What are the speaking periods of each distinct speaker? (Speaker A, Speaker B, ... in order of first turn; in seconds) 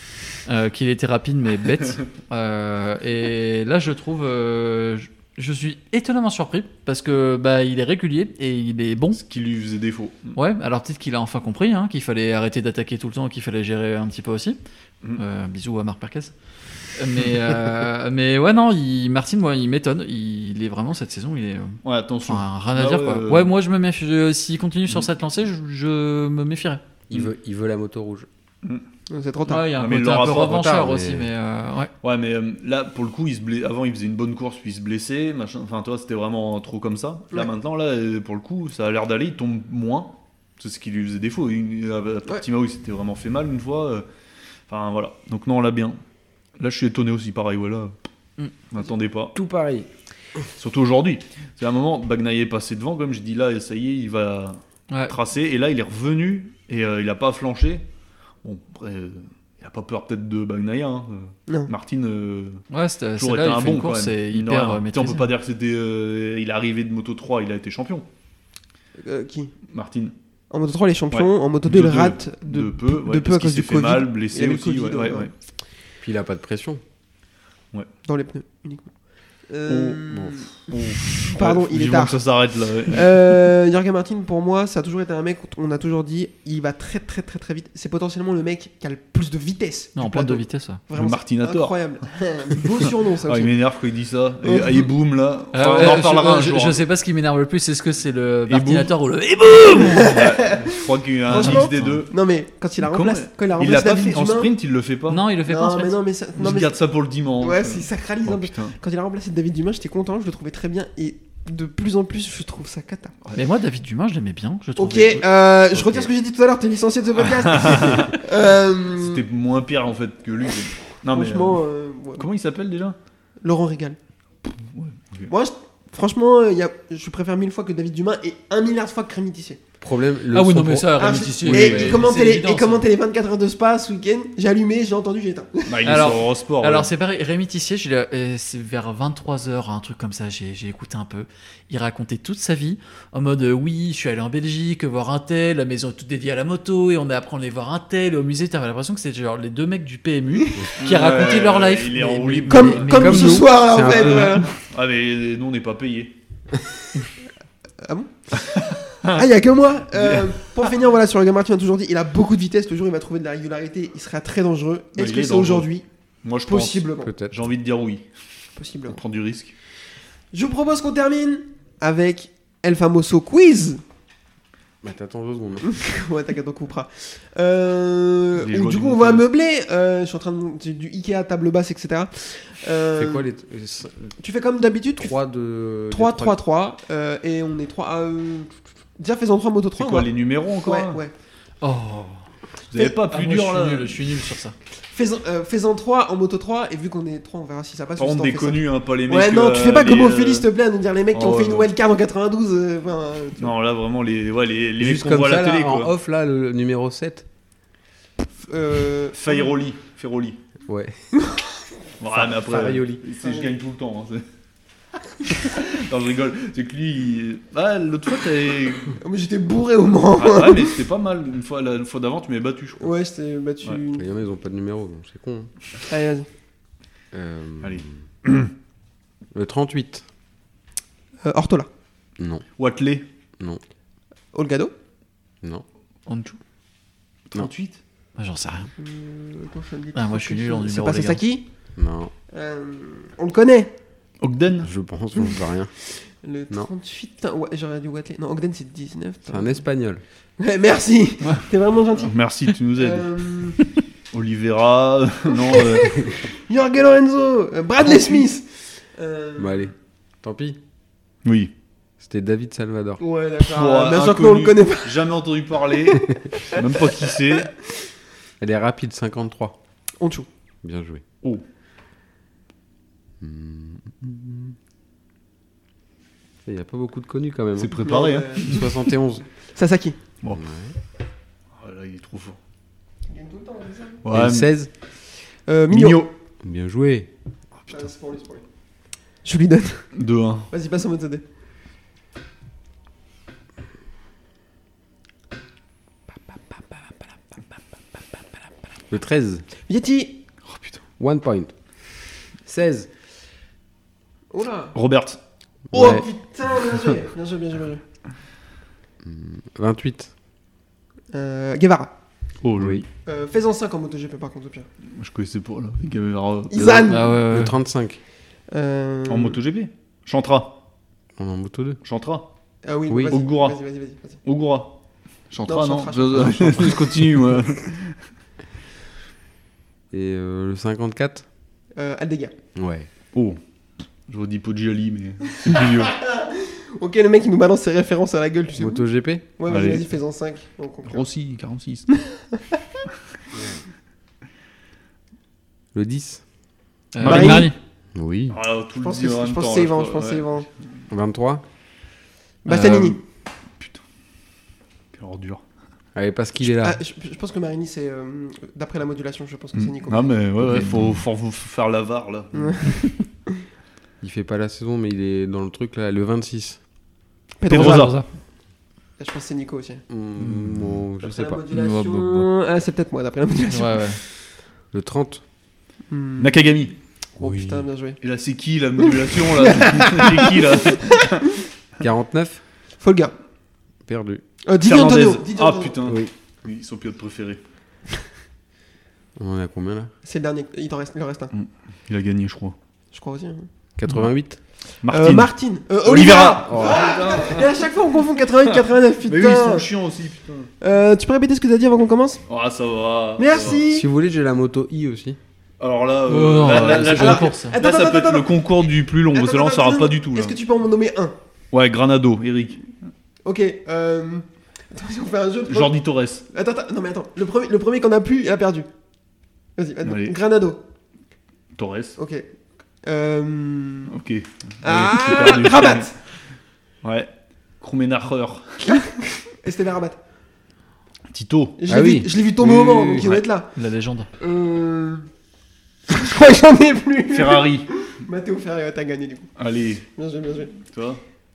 Speaker A: 0.4-9.2, 10.3-14.6, 15.2-16.3, 16.9-26.8, 29.4-31.9, 54.9-55.1, 62.7-65.3, 90.0-90.8, 95.5-100.2, 101.3-102.0, 105.1-106.0, 113.3-115.2, 130.3-132.8, 135.8-153.4, 191.6-192.2, 192.8-194.5, 236.1-236.4, 238.2-238.7, 239.9-241.2, 316.9-317.6, 346.9-347.6, 367.5-368.1, 370.2-370.6, 371.5-372.3, 373.5-374.0, 406.1-407.6, 433.0-434.1
Speaker B: 9.2-10.4, 21.8-23.5, 29.7-30.7, 32.0-44.0, 44.7-46.0, 46.6-47.9, 48.7-49.4, 50.6-57.8, 58.4-62.6, 63.2-68.0, 69.7-70.1, 71.1-75.3, 79.7-83.2, 90.9-91.7, 92.6-96.8, 98.5-98.9, 99.7-102.1, 102.8-105.2, 106.3-108.8, 117.2-118.2, 118.9-121.6, 122.2-123.0, 124.6-125.3, 131.4-132.1, 135.7-136.9, 150.8-156.1, 158.5-159.2, 159.9-160.3, 165.0-165.7, 166.2-168.0, 168.9-169.5, 178.4-179.2, 189.8-191.0, 192.7-194.0, 198.0-200.5, 201.1-201.7, 203.4-205.9, 209.1-210.4, 212.0-214.2, 215.3-218.9, 220.2-223.0, 227.6-228.5, 232.6-233.0, 237.3-237.8, 244.2-244.7, 251.9-253.1, 254.1-256.1, 261.2-261.5, 263.4-267.5, 277.6-278.8, 281.5-282.4, 284.0-284.5, 285.7-286.1, 289.9-290.5, 300.5-300.8, 304.7-305.2, 305.7-306.0, 306.6-306.9, 312.4-312.8, 314.9-316.9, 319.1-320.6, 321.8-322.3, 323.1-323.6, 324.2-324.7, 325.3-328.0, 333.1-333.4, 334.1-335.9, 339.5-339.9, 340.9-341.9, 347.0-347.5, 348.3-350.5, 352.5-353.0, 354.9-355.4, 359.5-362.7, 367.5-368.0, 376.2-376.7, 378.0-381.3, 384.6-387.4, 391.3-392.6, 394.8-395.3, 395.8-397.7, 398.4-400.5, 402.3-403.7, 405.6-410.4, 411.5-412.6, 415.5-416.2, 419.8-420.2, 421.6-422.0, 423.9-425.9, 426.8-428.8, 431.1-431.6, 437.1-437.7, 439.4-439.8, 440.7-441.0
Speaker C: 27.1-28.3, 30.4-31.3, 49.3-49.9, 76.0-76.8, 115.8-116.0, 129.8-131.0, 152.9-154.4, 167.0-167.3, 174.8-175.7, 182.9-184.2, 185.0-186.4, 204.8-207.2, 210.7-211.0, 212.1-213.0, 223.9-225.5, 227.1-228.0, 229.3-230.0, 232.2-232.4, 241.8-242.1, 244.6-245.7, 249.3-250.0, 259.4-260.6, 262.0-263.0, 268.4-269.6, 270.6-271.0, 273.2-274.5, 276.4-279.2, 280.3-280.7, 284.1-284.7, 286.4-287.1, 298.9-299.4, 301.0-301.5, 302.4-302.9, 305.7-306.1, 309.0-310.1, 312.6-312.9, 317.0-318.0, 321.1-321.8, 322.9-323.2, 329.9-331.2, 332.5-332.9, 338.5-339.2, 343.3-343.6, 345.7-346.2, 347.9-348.4, 350.9-351.4, 355.9-356.8, 364.0-366.6, 369.9-371.4, 374.7-375.2, 377.2-377.6, 381.8-382.4, 383.8-384.2, 385.9-386.1, 389.2-389.9, 393.8-394.4, 396.5-396.9, 403.4-405.2, 431.7-433.1
Speaker D: 29.1-29.7, 69.0-69.5, 70.5-75.3, 78.0-78.9, 79.5-82.2, 82.9-93.5, 94.5-94.8, 99.9-100.6, 101.2-104.5, 105.5-106.8, 107.4-113.1, 114.8-119.2, 121.1-122.2, 123.4-124.0, 125.3-129.6, 131.0-135.8, 152.5-154.5, 157.8-165.8, 166.5-167.1, 168.6-169.0, 170.3-173.8, 175.6-183.2, 184.2-185.1, 185.9-190.1, 190.6-191.1, 194.9-203.5, 208.5-209.5, 211.2-211.5, 213.2-213.5, 218.9-220.8, 222.8-224.1, 225.9-226.3, 231.2-231.7, 234.3-234.7, 238.8-241.4, 242.3-243.7, 246.2-249.6, 250.4-252.1, 252.8-253.6, 255.3-259.7, 263.0-265.1, 270.0-270.3, 277.8-278.7, 279.5-280.0, 283.1-284.0, 285.5-286.1, 287.7-288.4, 289.2-289.9, 290.5-291.2, 299.6-300.2, 304.3-304.7, 305.7-307.8, 311.1-311.9, 313.0-314.7, 316.5-317.1, 318.5-319.4, 322.6-324.2, 325.5-326.8, 331.8-332.3, 335.4-338.8, 339.4-341.1, 342.0-342.6, 347.0-347.5, 348.8-350.5, 352.4-353.0, 356.5-360.2, 362.3-363.4, 367.4-367.9, 369.0-369.8, 371.0-374.0, 375.9-376.4, 377.2-378.0, 379.3-380.9, 382.8-383.1, 384.4-385.9, 390.0-391.3, 392.9-393.5, 394.9-399.7, 400.6-402.2, 403.2-403.9, 406.4-408.4, 409.1-411.1, 413.2-418.7, 419.6-420.6, 422.0-422.2, 422.8-423.9, 424.6-425.9, 428.7-430.0, 431.6-433.5, 434.2-435.1, 435.9-439.3, 439.9-440.6